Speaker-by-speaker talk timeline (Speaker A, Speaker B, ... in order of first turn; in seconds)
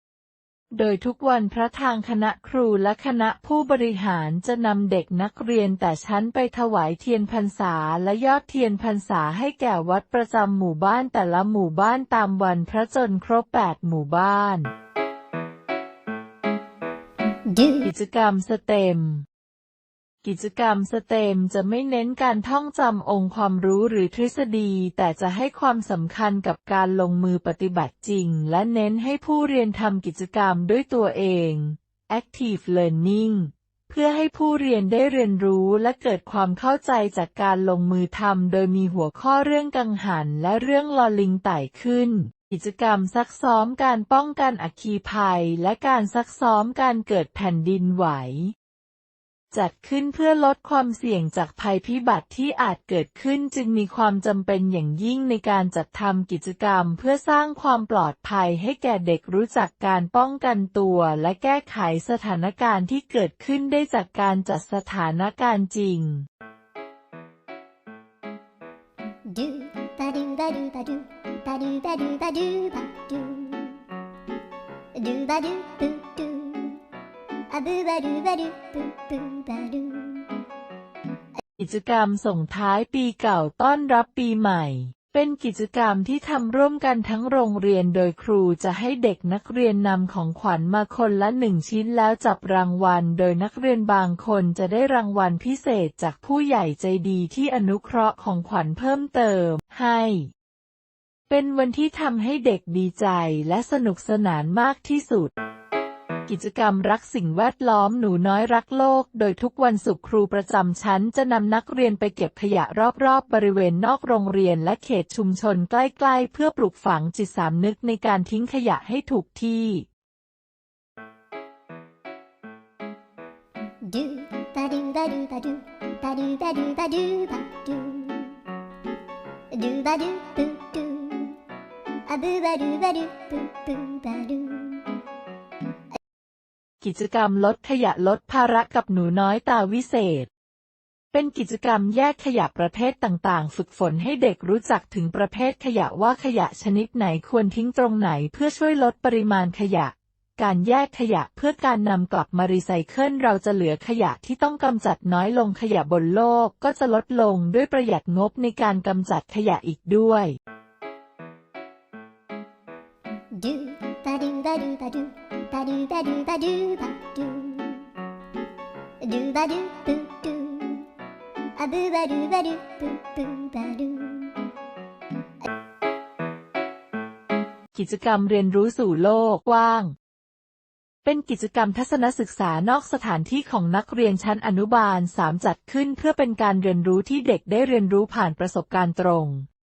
Speaker A: 0.8-14.7, 17.8-19.3, 20.2-48.5, 49.5-66.3, 81.6-100.3, 101.3-105.3, 106.3-119.9, 136.8-140.3, 141.1-160.3, 177.7-179.9, 181.1-189.5
Speaker B: 17.5-17.8, 69.2-73.8, 74.9-76.8, 77.5-80.3, 123.8-128.4, 129.5-131.4, 132.1-134.9, 163.3-167.9, 169.0-170.9, 171.6-174.4